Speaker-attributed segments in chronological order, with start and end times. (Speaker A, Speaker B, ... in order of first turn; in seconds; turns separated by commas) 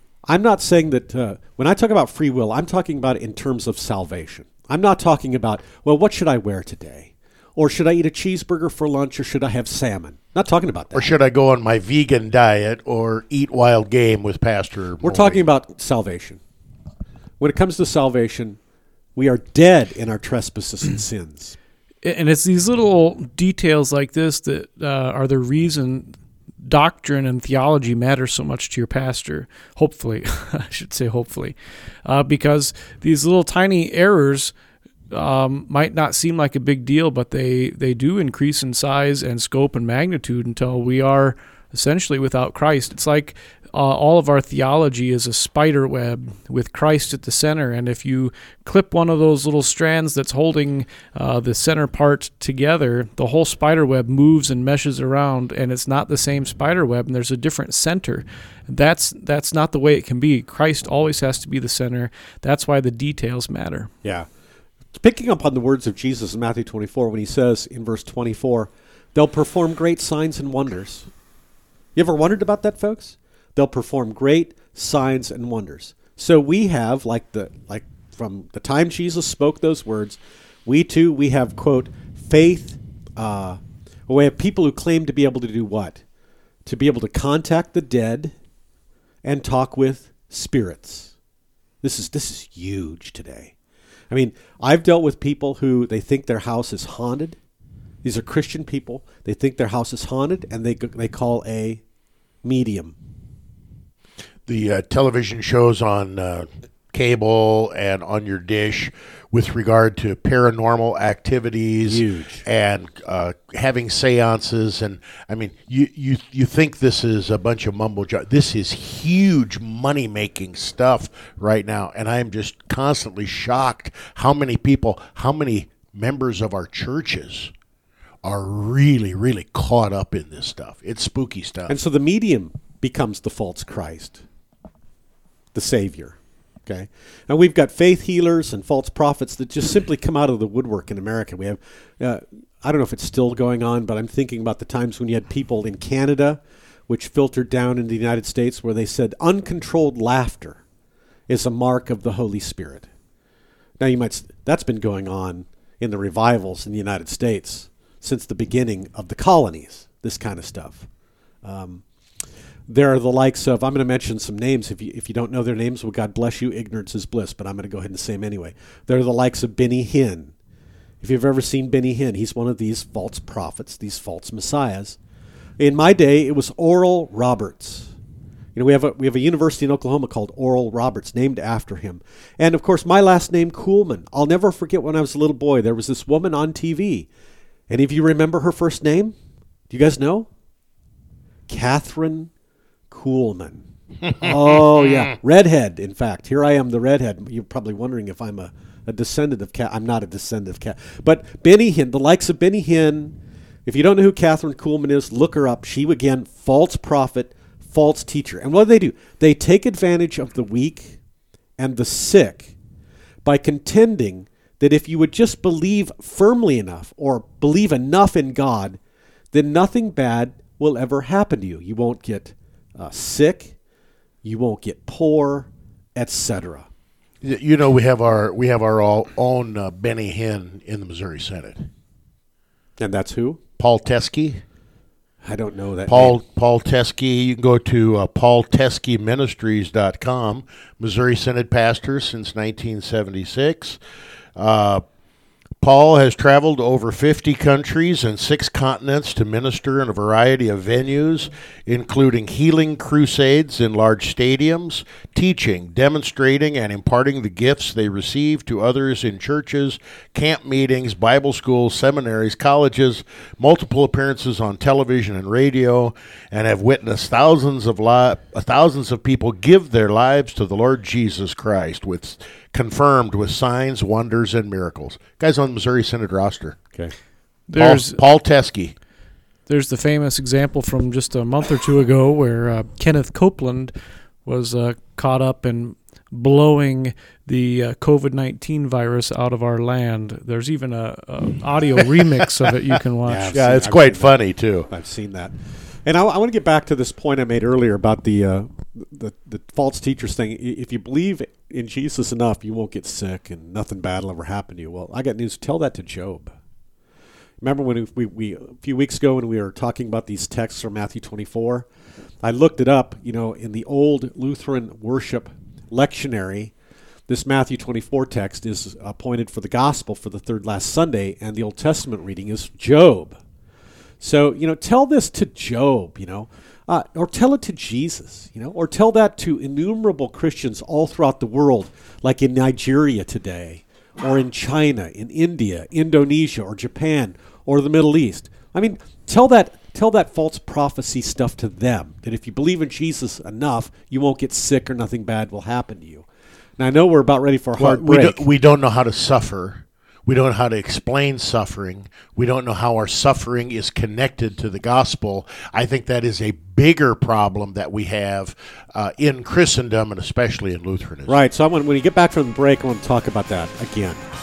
Speaker A: 0.3-11.1, Speaker B: 10.9-15.5, Speaker A: 15.0-16.4, Speaker A: 17.4-18.6, Speaker A: 19.1-21.6, Speaker C: 22.0-34.5, Speaker C: 35.1-63.9, Speaker A: 64.9-71.1, Speaker A: 72.0-86.0, Speaker A: 86.7-88.3, Speaker A: 89.2-91.2, Speaker A: 91.8-93.5, Speaker A: 94.1-97.4, Speaker A: 98.0-101.8, Speaker A: 102.4-103.0, Speaker B: 104.5-127.5, Speaker A: 111.8-112.5, Speaker B: 128.2-131.7, Speaker A: 131.7-134.2, Speaker A: 135.5-150.6, Speaker A: 151.3-152.9, Speaker A: 153.8-160.9, Speaker A: 161.4-161.8, Speaker A: 162.7-170.3, Speaker A: 171.0-175.0, Speaker A: 175.6-177.9, Speaker A: 178.6-187.1, Speaker A: 187.7-189.1, Speaker A: 189.7-190.3, Speaker A: 191.5-192.3, Speaker A: 192.9-211.0, Speaker A: 211.6-212.6, Speaker A: 213.2-218.8, Speaker A: 219.3-223.6, Speaker A: 224.2-226.7, Speaker B: 227.2-231.7, Speaker A: 232.8-233.4, Speaker B: 233.6-234.4, Speaker A: 235.2-236.2, Speaker B: 235.9-243.8, Speaker B: 244.4-244.8, Speaker B: 245.6-276.6, Speaker C: 277.5-278.0, Speaker B: 277.6-278.8, Speaker C: 279.5-283.7, Speaker C: 284.2-293.4, Speaker A: 293.1-306.4, Speaker B: 293.3-294.7, Speaker A: 307.4-311.7, Speaker A: 312.2-316.5, Speaker A: 317.1-323.2, Speaker A: 324.0-346.1, Speaker A: 346.6-348.3, Speaker B: 347.6-361.2, Speaker A: 361.1-364.0